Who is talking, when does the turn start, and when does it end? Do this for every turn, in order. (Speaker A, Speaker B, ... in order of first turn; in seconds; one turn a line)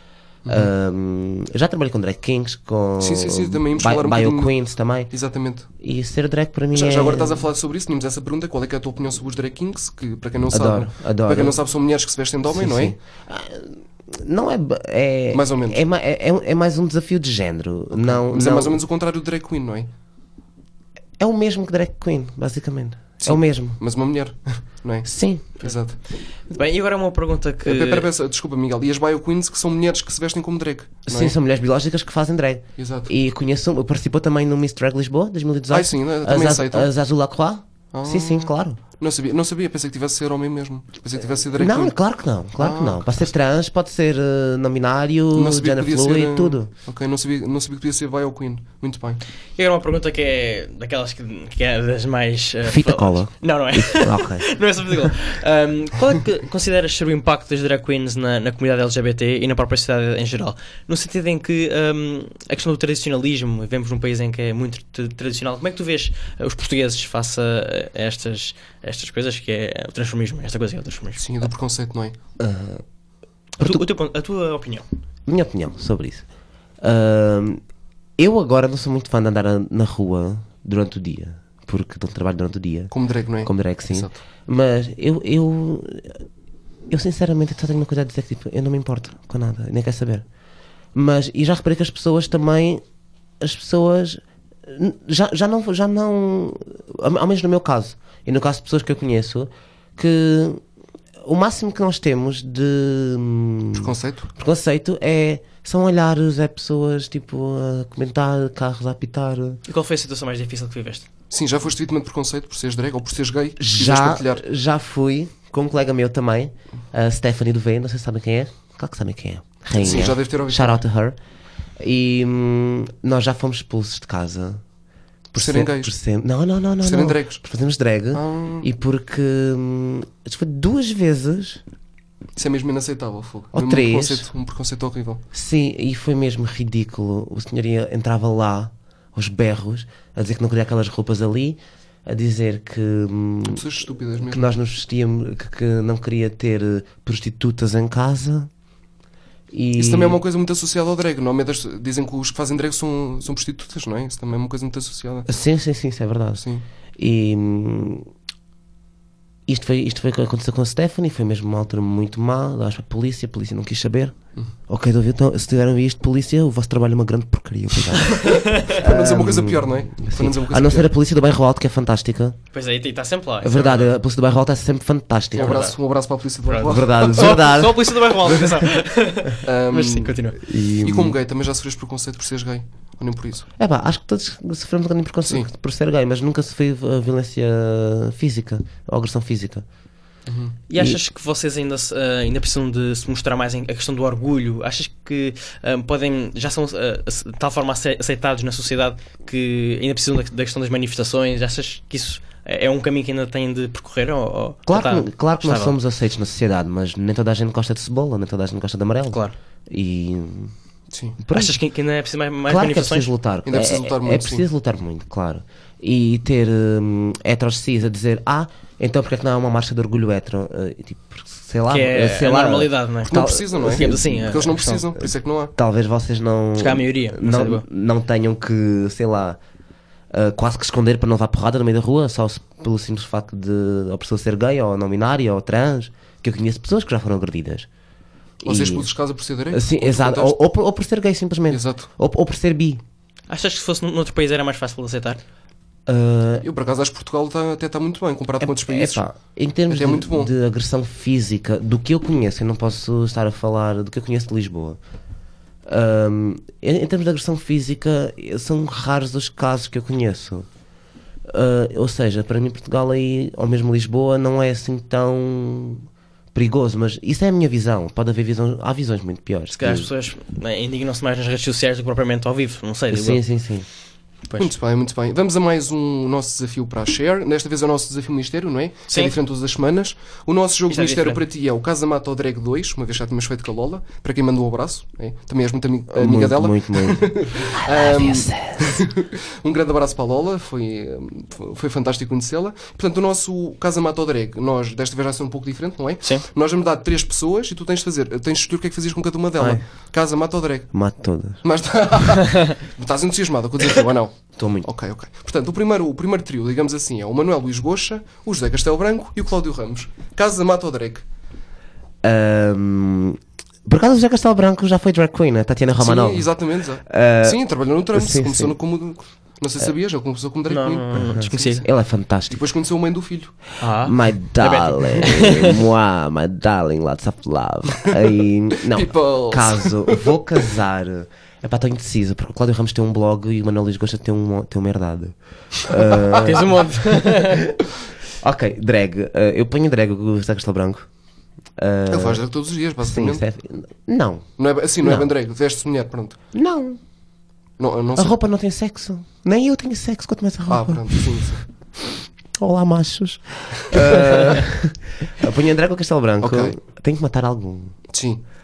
Speaker A: 0.4-0.7
Speaker B: 0.5-5.1
Speaker A: 3.0-4.5
Speaker A: 5.1-5.7
Speaker B: 5.8-7.5
Speaker A: 6.7-12.9
Speaker B: 10.5-11.6
Speaker B: 12.5-18.8
Speaker A: 15.3-15.8
Speaker A: 17.9-19.9
Speaker B: 21.2-23.8
Speaker A: 23.2-26.0
Speaker B: 25.0-25.4
Speaker C: 26.5-28.1
Speaker A: 27.6-31.3
Speaker B: 31.1-38.8
Speaker A: 32.8-33.1
Speaker A: 35.7-36.9
Speaker A: 37.9-41.9
Speaker B: 41.5-46.7
Speaker A: 42.6-43.2
Speaker A: 45.3-49.2
Speaker C: 49.6-71.2
Speaker B: 52.6-54.5
Speaker A: 71.2-72.1
Speaker B: 72.4-72.8
Speaker B: 73.6-73.9
Speaker C: 73.6-74.8
Speaker B: 75.3-76.2
Speaker B: 76.8-77.6
Speaker B: 78.2-86.2
Speaker A: 82.9-84.1
Speaker B: 86.9-90.2
Speaker B: 90.9-92.8
Speaker B: 93.4-100.6
Speaker B: 101.2-109.6
Speaker A: 103.7-104.3
Speaker C: 109.7-111.0
Speaker A: 111.3-114.4
Speaker B: 113.6-121.2
Speaker A: 119.7-120.8
Speaker B: 121.8-124.6
Speaker B: 125.3-131.6
Speaker A: 125.3-125.9
Speaker A: 126.8-127.4
Speaker A: 128.1-128.7
Speaker A: 132.3-135.2
Speaker B: 133.5-134.3
Speaker B: 135.3-143.7
Speaker A: 143.4-144.5
Speaker B: 144.2-148.5
Speaker B: 149.5-150.2
Speaker A: 149.8-155.3
Speaker B: 155.3-156.4
Speaker B: 157.0-158.1
Speaker B: 159.5-164.2
Speaker B: 164.7-172.4
Speaker C: 168.2-168.7
Speaker A: 168.2-170.9
Speaker C: 172.5-173.9
Speaker B: 173.4-175.7
Speaker A: 175.3-177.5
Speaker C: 175.4-175.8
Speaker C: 176.4-180.4
Speaker B: 176.6-178.3
Speaker A: 179.4-180.2
Speaker B: 180.4-181.2
Speaker A: 180.8-183.5
Speaker B: 183.6-189.6
Speaker A: 190.3-190.6
Speaker C: 190.7-205.8
Speaker B: 190.7-191.0
Speaker B: 204.7-210.5
Speaker A: 210.9-211.2
Speaker B: 211.2-211.6
Speaker C: 211.3-213.1
Speaker B: 212.5-224.2
Speaker A: 213.4-214.4
Speaker C: 221.7-224.8
Speaker A: 223.1-225.5
Speaker B: 225.6-229.4
Speaker C: 226.6-227.6
Speaker B: 230.1-237.7
Speaker B: 238.4-238.9
Speaker A: 238.4-240.4
Speaker B: 239.5-242.8
Speaker A: 241.5-241.9
Speaker C: 243.3-245.2
Speaker B: 245.9-246.4
Speaker A: 246.4-249.1
Speaker B: 248.4-254.8
Speaker A: 249.7-250.3
Speaker B: 255.7-260.5
Speaker B: 261.3-269.9
Speaker C: 269.5-273.2
Speaker B: 272.9-273.6
Speaker A: 274.4-300.7
Speaker C: 278.9-279.1
Speaker C: 280.7-281.2
Speaker B: 285.9-288.9
Speaker B: 299.4-299.6
Speaker B: 300.7-301.4
Speaker A: 301.4-311.0
Speaker B: 304.4-304.7
Speaker B: 312.0-316.3
Speaker A: 315.8-321.7
Speaker B: 316.9-317.4
Speaker B: 317.9-318.6
Speaker C: 320.5-321.6
Speaker B: 320.9-322.4
Speaker A: 322.3-323.4
Speaker C: 323.6-325.6
Speaker B: 323.8-337.6
Speaker A: 328.7-330.2
Speaker C: 336.2-337.4
Speaker B: 338.2-340.9
Speaker B: 341.6-342.2
Speaker A: 341.9-343.2
Speaker B: 342.8-344.3
Speaker A: 344.4-346.2
Speaker B: 344.8-345.1
Speaker B: 346.3-346.8
Speaker A: 347.6-348.2
Speaker B: 347.9-351.1
Speaker A: 350.5-351.4
Speaker B: 352.4-357.8
Speaker A: 356.2-356.6
Speaker A: 357.9-358.2